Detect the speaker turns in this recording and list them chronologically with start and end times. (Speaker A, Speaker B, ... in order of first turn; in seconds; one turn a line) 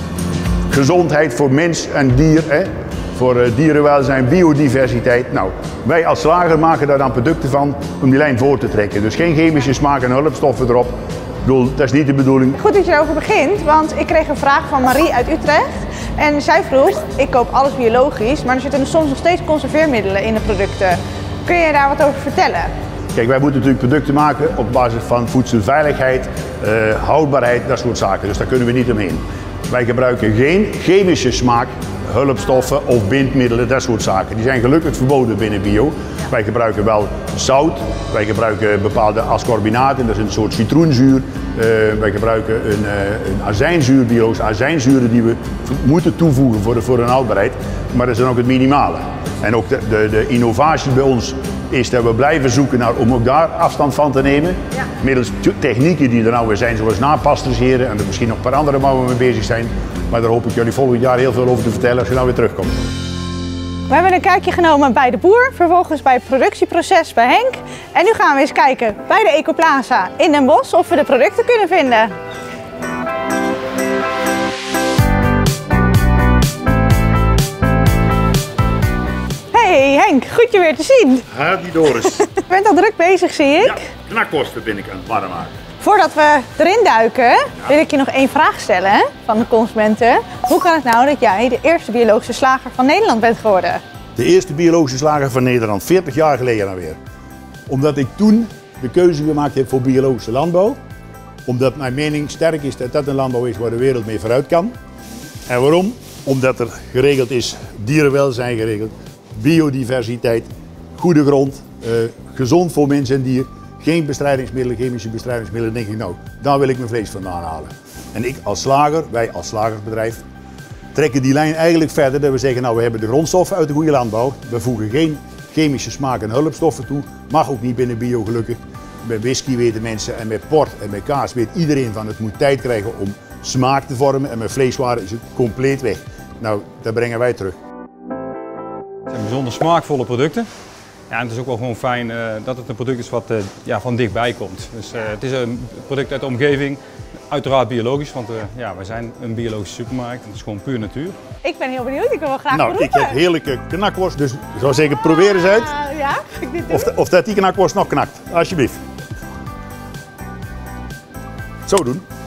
Speaker A: 0.7-12.6
Speaker B: 12.6-22.7
Speaker A: 23.1-62.8
Speaker B: 63.9-72.1
Speaker B: 79.5-81.3
Speaker A: 81.3-82.3
Speaker B: 82.2-83.9
Speaker A: 83.6-85.5
Speaker B: 85.8-93.8
Speaker A: 94.2-97.0
Speaker A: 97.7-100.8
Speaker A: 101.5-104.7
Speaker A: 105.5-120.2
Speaker A: 120.9-137.6
Speaker C: 139.1-140.5
Speaker C: 141.1-151.2
Speaker B: 151.4-153.2
Speaker A: 152.5-155.7
Speaker B: 155.1-156.9
Speaker A: 156.7-158.8
Speaker A: 161.7-162.0